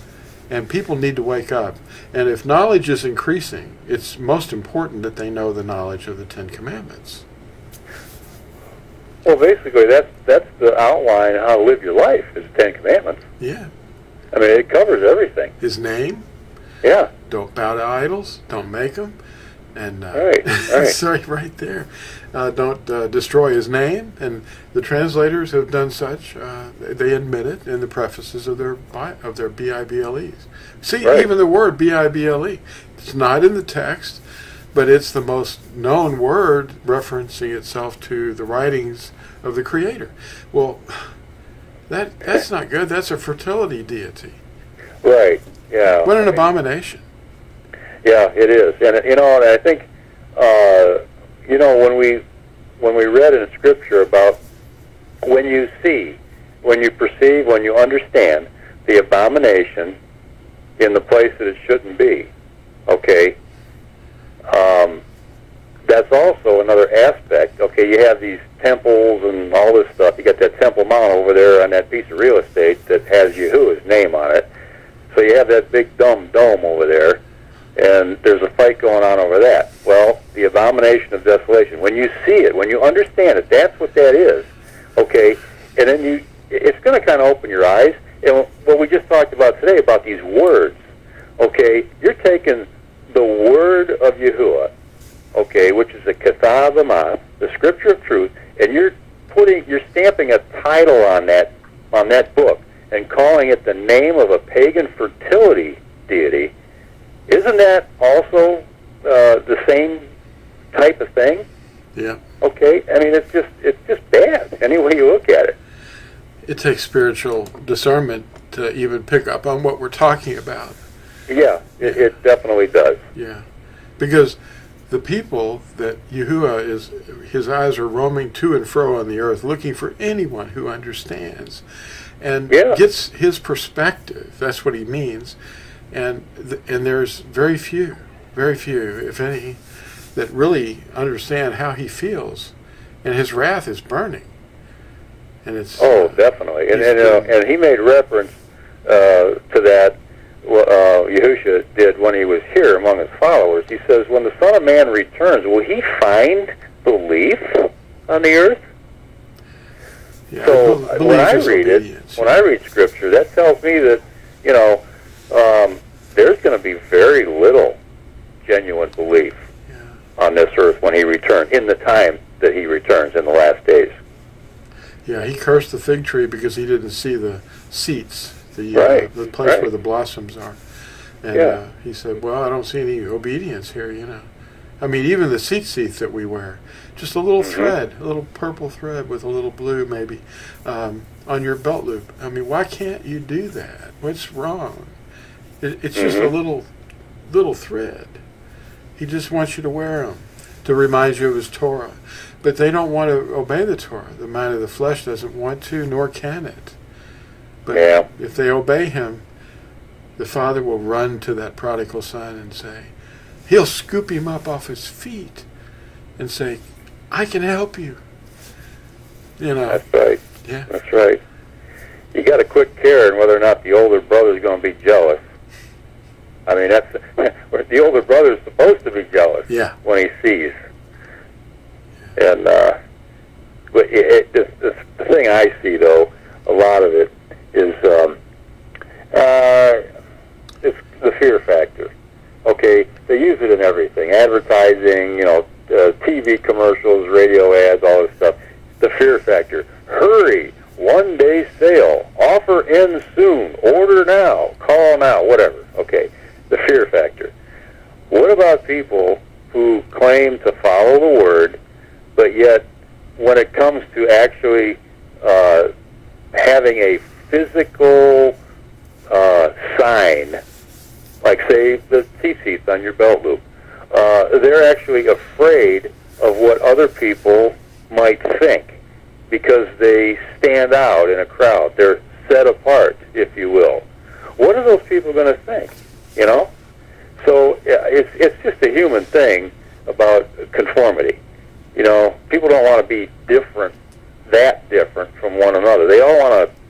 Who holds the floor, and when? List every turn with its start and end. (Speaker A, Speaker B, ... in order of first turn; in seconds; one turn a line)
Speaker A: 0.5-7.2
Speaker B: 9.2-13.2
Speaker A: 13.4-13.7
Speaker B: 14.3-15.5
Speaker A: 15.6-16.2
Speaker B: 16.8-17.1
Speaker A: 17.3-19.2
Speaker A: 19.7-34.2
Speaker B: 20.1-20.9
Speaker A: 34.7-41.1
Speaker A: 41.9-44.4
Speaker B: 45.0-46.4
Speaker A: 46.0-47.0
Speaker B: 48.0-52.2
Speaker B: 52.8-54.4
Speaker B: 55.2-60.0
Speaker B: 60.8-62.3
Speaker B: 62.9-63.4
Speaker B: 64.5-65.0
Speaker B: 65.9-74.5
Speaker B: 75.1-77.2
Speaker B: 77.8-90.8
Speaker B: 91.4-94.7
Speaker B: 95.3-106.5
Speaker B: 107.3-110.0
Speaker B: 110.7-111.4
Speaker A: 111.9-112.2
Speaker B: 112.4-115.5
Speaker A: 116.4-120.8
Speaker B: 121.3-123.0
Speaker A: 123.1-123.4
Speaker A: 124.0-131.6
Speaker A: 132.2-135.4
Speaker B: 132.5-132.8
Speaker A: 135.9-139.6
Speaker A: 140.1-144.3
Speaker A: 145.4-147.3
Speaker B: 145.8-148.3
Speaker B: 148.8-158.6
Speaker A: 160.3-162.4
Speaker B: 160.4-167.8
Speaker B: 168.4-169.4
Speaker B: 170.2-174.0
Speaker A: 175.0-180.6
Speaker B: 178.7-179.7
Speaker A: 181.2-184.3
Speaker B: 181.3-181.6
Speaker A: 184.8-194.9
Speaker B: 187.4-187.7
Speaker A: 195.6-196.7
Speaker B: 195.9-196.3
Speaker A: 197.2-198.2
Speaker A: 199.0-206.8
Speaker A: 207.6-209.2
Speaker B: 207.7-208.1
Speaker A: 210.2-212.9
Speaker A: 213.5-215.4
Speaker A: 216.2-218.0
Speaker A: 219.4-219.8
Speaker B: 219.7-221.2
Speaker A: 220.4-220.7
Speaker B: 222.1-225.2
Speaker B: 226.5-230.5
Speaker A: 229.5-229.7
Speaker B: 232.2-232.7
Speaker B: 233.7-238.2
Speaker B: 239.1-239.8
Speaker B: 240.6-241.9
Speaker B: 242.4-257.3
Speaker B: 258.1-261.6
Speaker B: 262.1-265.7
Speaker B: 266.3-268.4
Speaker B: 269.1-270.4
Speaker B: 271.2-278.8
Speaker B: 279.3-283.9
Speaker B: 284.4-286.5
Speaker B: 287.2-291.2
Speaker B: 291.7-293.7
Speaker B: 294.3-296.5